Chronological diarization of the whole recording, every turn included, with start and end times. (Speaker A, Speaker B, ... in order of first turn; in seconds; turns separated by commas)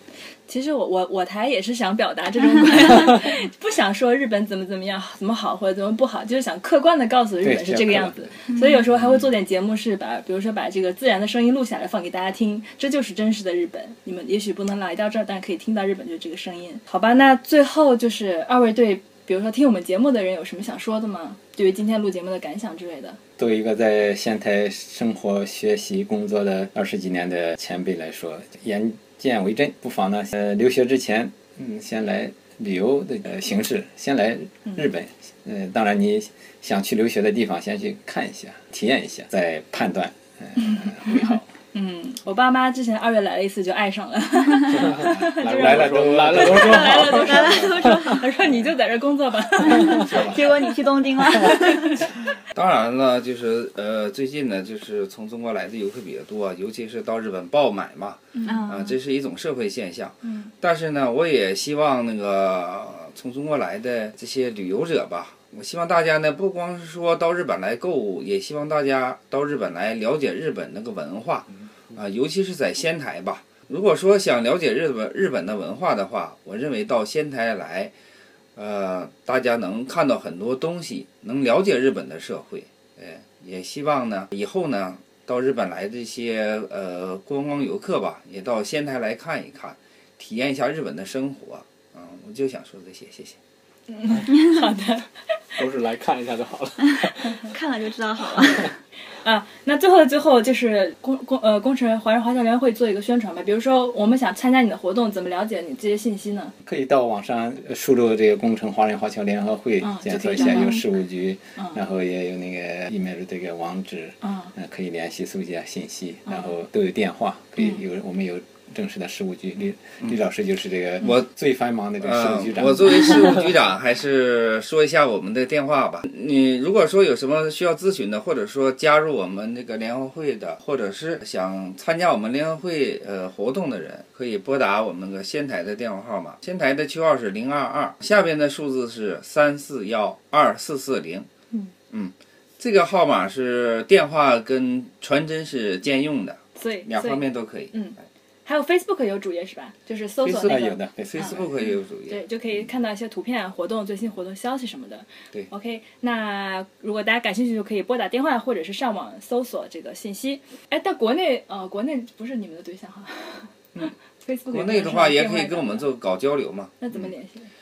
Speaker A: 0.5-23.2, Speaker B: 7.4-8.3, Speaker B: 23.4-41.5, Speaker A: 40.6-50.7, Speaker C: 44.7-48.2, Speaker B: 45.0-47.7, Speaker D: 47.0-48.2, Speaker D: 49.7-52.1, Speaker B: 50.1-50.4, Speaker A: 51.4-51.9, Speaker E: 52.5-77.9, Speaker A: 58.3-58.6, Speaker D: 58.5-59.0, Speaker A: 60.2-60.5, Speaker E: 78.6-93.4, Speaker A: 93.9-95.1, Speaker C: 95.6-97.5, Speaker D: 97.5-98.8, Speaker A: 99.2-106.5, Speaker B: 106.7-123.4, Speaker A: 109.8-110.8, Speaker D: 110.4-110.8, Speaker A: 114.2-114.5, Speaker E: 122.0-141.3, Speaker E: 141.9-147.8, Speaker A: 146.6-151.4, Speaker E: 150.2-152.2, Speaker B: 150.4-151.6, Speaker A: 152.1-165.9, Speaker E: 164.5-167.1, Speaker A: 166.8-167.5